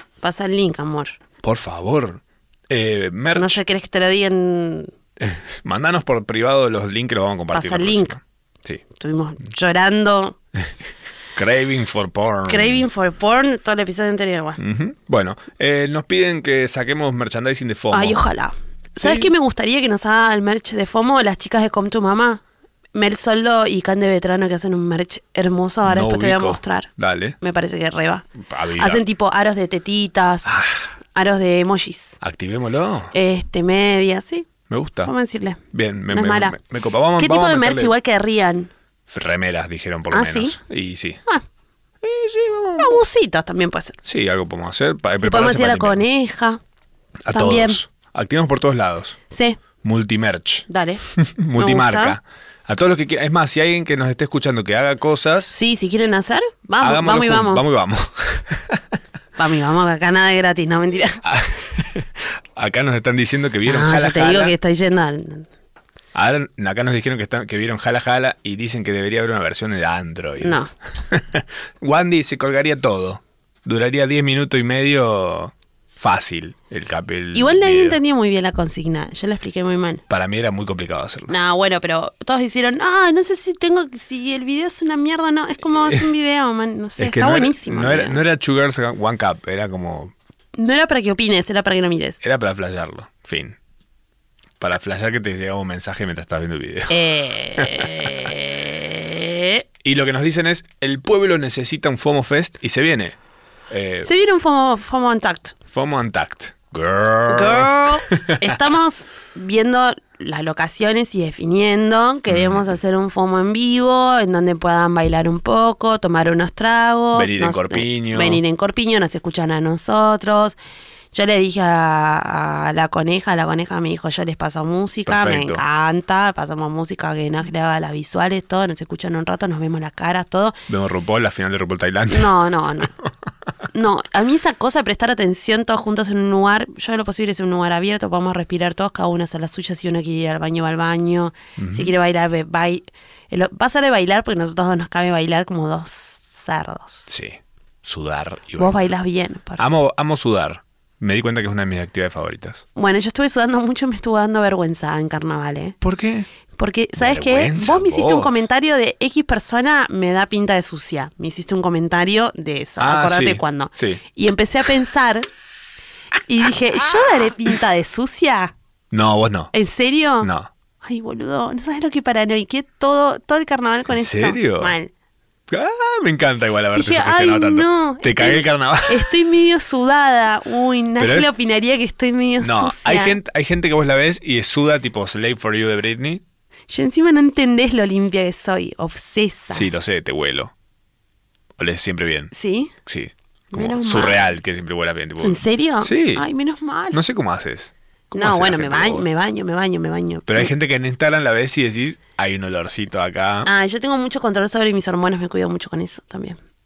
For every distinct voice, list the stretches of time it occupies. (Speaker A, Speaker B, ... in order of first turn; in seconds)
Speaker A: 0.2-1.2, 3.4-4.9, 7.5-8.2, 8.9-10.4, 12.5-14.6, 17.9-22.4, 22.9-30.6, 31.1-32.2, 33.1-34.5, 35.0-36.6, 37.2-38.7, 40.1-40.6, 42.8-44.0, 45.2-46.6, 47.3-47.8, 49.3-49.6, 50.7-51.0, 51.6-52.2, 55.5-57.6, 59.4-61.2, 63.7-65.5, 70.4-70.7, 77.3-80.0, 81.3-88.2, 90.6-92.2, 96.9-99.6, 104.0-105.5, 107.3-120.6, 121.1-130.6, 132.1-132.9, 133.7-147.1, 148.6-149.6, 152.8-155.8, 156.6-165.3, 166.2-168.5, 169.5-170.3, 170.8-174.9, 176.8-183.2, 186.7-189.7, 192.3-192.7, 193.5-194.3, 195.2-197.0, 198.1-200.5, 203.4-206.4
Speaker B: 1.4-3.6, 5.2-8.8, 11.3-12.9, 14.6-18.2, 19.0-19.3, 25.8-27.4, 28.4-29.0, 30.4-30.9, 32.2-33.1, 34.7-35.1, 35.7-37.9, 39.1-41.2, 42.0-43.0, 44.0-46.0, 47.2-49.2, 49.8-55.6, 56.8-58.8, 61.2-64.5, 66.1-78.0, 80.1-81.3, 87.0-90.1, 92.2-93.6, 94.6-97.0, 97.6-98.1, 99.8-103.2, 103.7-104.1, 105.7-108.7, 112.3-112.7, 117.1-118.4, 125.1-125.6, 130.7-132.3, 141.6-141.9, 147.1-148.8, 149.6-152.6, 155.8-156.3, 157.0-158.3, 162.8-164.0, 168.9-169.5, 170.2-170.5, 173.9-174.8, 175.5-179.2, 181.0-181.3, 182.4-186.2, 189.5-190.5, 191.6-192.3, 192.8-196.3, 196.9-199.1, 200.3-203.5